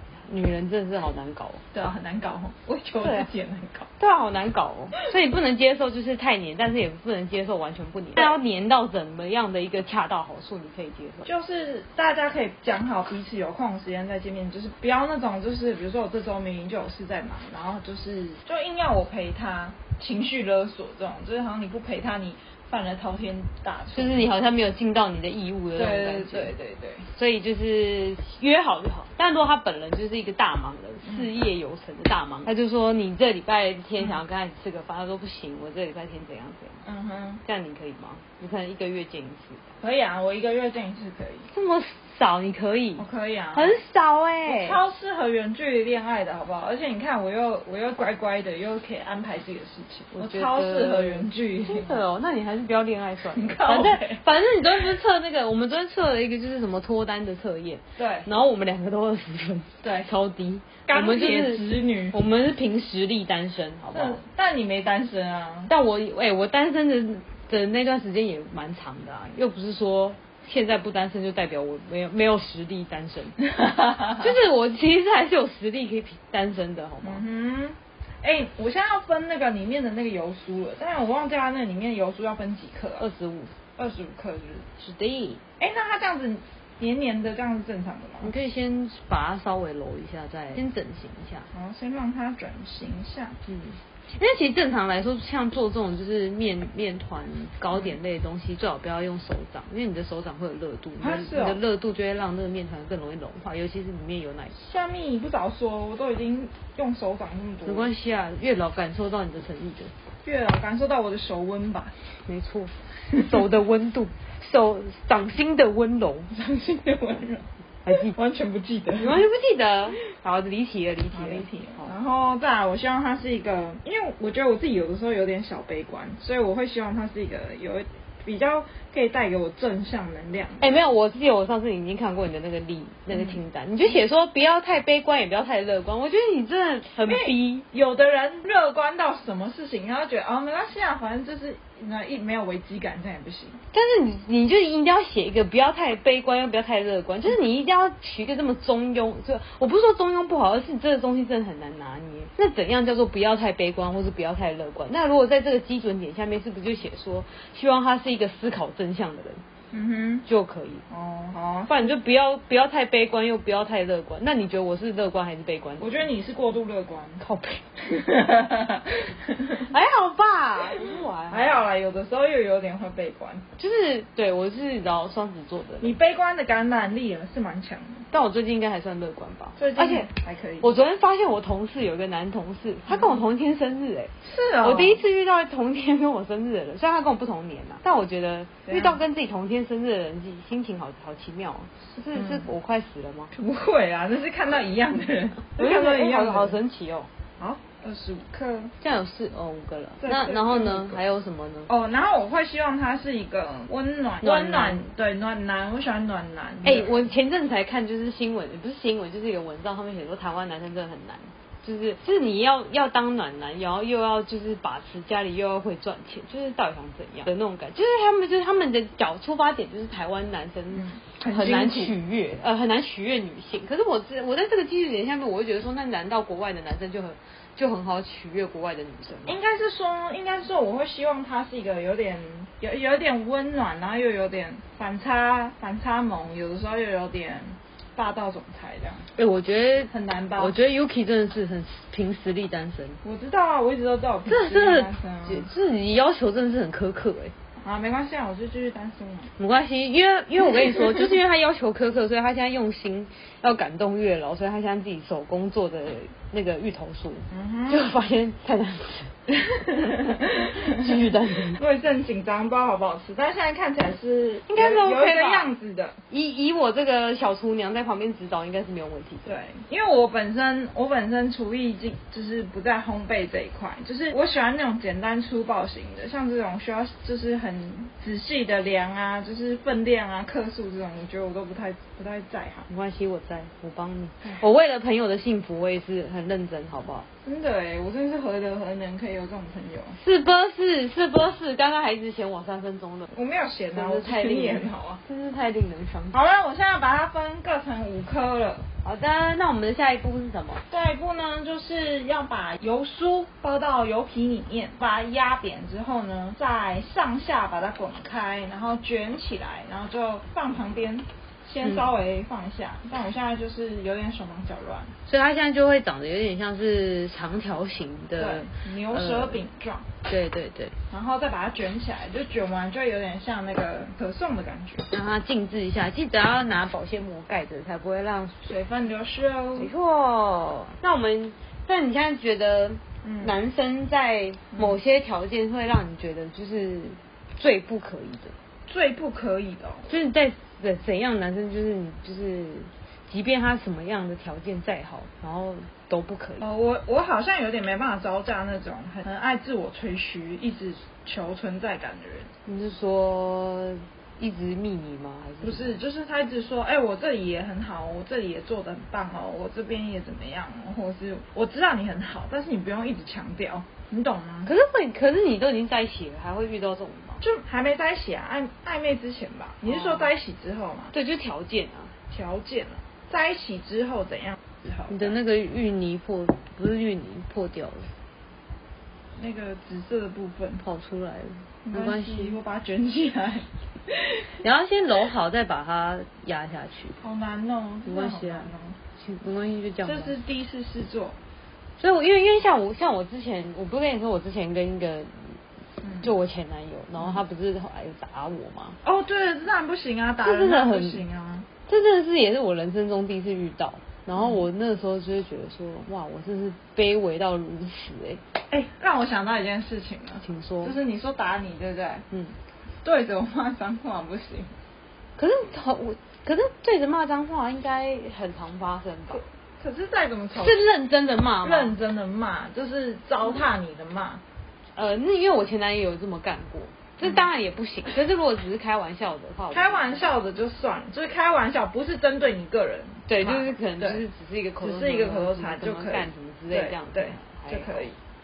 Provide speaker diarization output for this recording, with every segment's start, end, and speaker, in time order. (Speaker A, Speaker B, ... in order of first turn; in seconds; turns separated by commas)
Speaker A: 0.2-1.6, Speaker B: 1.7-3.9, Speaker A: 4.0-11.3, Speaker B: 11.2-24.3, Speaker A: 23.9-26.5, Speaker B: 25.8-27.1, Speaker A: 27.1-36.8, Speaker B: 36.8-37.4, Speaker A: 37.4-39.7, Speaker B: 39.8-41.5, Speaker A: 41.5-44.8, Speaker B: 43.0-43.8, Speaker B: 44.5-52.0, Speaker A: 50.1-64.2, Speaker B: 53.3-54.2, Speaker B: 58.0-58.3, Speaker B: 59.8-60.1, Speaker B: 60.9-62.2, Speaker B: 63.9-65.7, Speaker A: 65.7-73.4, Speaker B: 73.5-74.2, Speaker A: 74.0-77.2, Speaker B: 77.0-83.0, Speaker A: 83.0-83.5, Speaker B: 83.8-84.7, Speaker A: 84.8-85.4, Speaker B: 85.6-88.3, Speaker A: 88.2-91.5, Speaker B: 91.5-93.4, Speaker A: 93.5-104.5, Speaker B: 101.0-101.6, Speaker B: 104.5-107.9, Speaker A: 107.6-109.9, Speaker B: 110.2-112.0, Speaker A: 112.2-116.3, Speaker B: 116.3-119.2, Speaker A: 117.8-118.1, Speaker A: 119.0-121.9, Speaker B: 121.1-130.8, Speaker A: 130.6-137.6, Speaker B: 133.1-133.4, Speaker B: 137.1-143.6, Speaker A: 143.7-159.4, Speaker B: 159.7-160.2, Speaker A: 160.2-160.8, Speaker B: 160.9-161.9, Speaker A: 161.7-166.1, Speaker B: 165.8-167.2, Speaker A: 167.2-167.7, Speaker B: 167.8-169.7, Speaker A: 169.6-171.6, Speaker B: 171.3-173.4, Speaker A: 173.6-175.9, Speaker B: 175.8-178.1, Speaker A: 178.1-180.1, Speaker B: 179.6-180.8, Speaker A: 180.6-193.3, Speaker B: 182.9-183.2, Speaker B: 184.2-185.0, Speaker B: 188.7-189.0, Speaker B: 192.1-192.4, Speaker B: 193.3-196.6, Speaker A: 195.6-197.1, Speaker B: 197.4-198.7, Speaker A: 198.8-201.7, Speaker B: 200.0-201.0, Speaker B: 201.7-207.1, Speaker A: 204.2-204.8, Speaker A: 206.6-229.4, Speaker B: 220.7-221.9, Speaker B: 229.2-239.1, Speaker A: 239.2-243.0, Speaker B: 239.9-240.6, Speaker B: 243.0-245.5, Speaker A: 244.3-247.3, Speaker B: 247.6-249.3, Speaker A: 249.4-259.1, Speaker B: 250.4-251.0, Speaker B: 257.3-257.8, Speaker B: 259.3-266.0, Speaker A: 260.6-261.6, Speaker A: 264.5-265.5, Speaker A: 266.1-269.4, Speaker B: 269.2-282.7, Speaker A: 282.7-287.1, Speaker B: 287.2-290.0, Speaker A: 290.0-293.1, Speaker B: 293.1-295.0, Speaker A: 293.7-296.2, Speaker B: 296.1-298.7, Speaker A: 298.8-300.6, Speaker B: 300.7-314.9, Speaker A: 315.1-319.4, Speaker B: 318.2-319.9, Speaker A: 320.1-320.7, Speaker B: 320.9-324.9, Speaker A: 324.9-328.5, Speaker B: 328.4-329.7, Speaker A: 329.6-338.3, Speaker B: 333.0-333.3, Speaker B: 338.7-339.9, Speaker A: 339.9-346.5, Speaker B: 346.4-352.3, Speaker A: 352.4-355.8, Speaker B: 355.4-364.5, Speaker A: 364.4-367.2, Speaker B: 367.2-370.9, Speaker A: 369.6-370.1, Speaker A: 370.9-371.9, Speaker B: 372.1-375.1, Speaker A: 374.9-377.9, Speaker B: 379.1-380.6, Speaker A: 380.6-382.4, Speaker B: 381.6-384.4, Speaker A: 384.4-387.0, Speaker B: 387.0-388.8, Speaker A: 387.8-390.2, Speaker B: 389.8-391.2, Speaker A: 391.8-395.4, Speaker B: 395.8-396.1, Speaker A: 396.0-398.8, Speaker B: 398.8-401.5, Speaker A: 400.2-401.0, Speaker A: 401.6-408.2, Speaker B: 404.1-404.4, Speaker B: 408.5-412.1, Speaker A: 410.2-410.7, Speaker A: 412.1-412.4, Speaker B: 412.8-414.5, Speaker A: 415.2-419.2, Speaker B: 419.2-420.6, Speaker A: 420.4-421.7, Speaker B: 421.4-424.2, Speaker A: 424.8-430.0, Speaker B: 429.5-434.0, Speaker A: 433.1-437.9, Speaker B: 434.6-437.9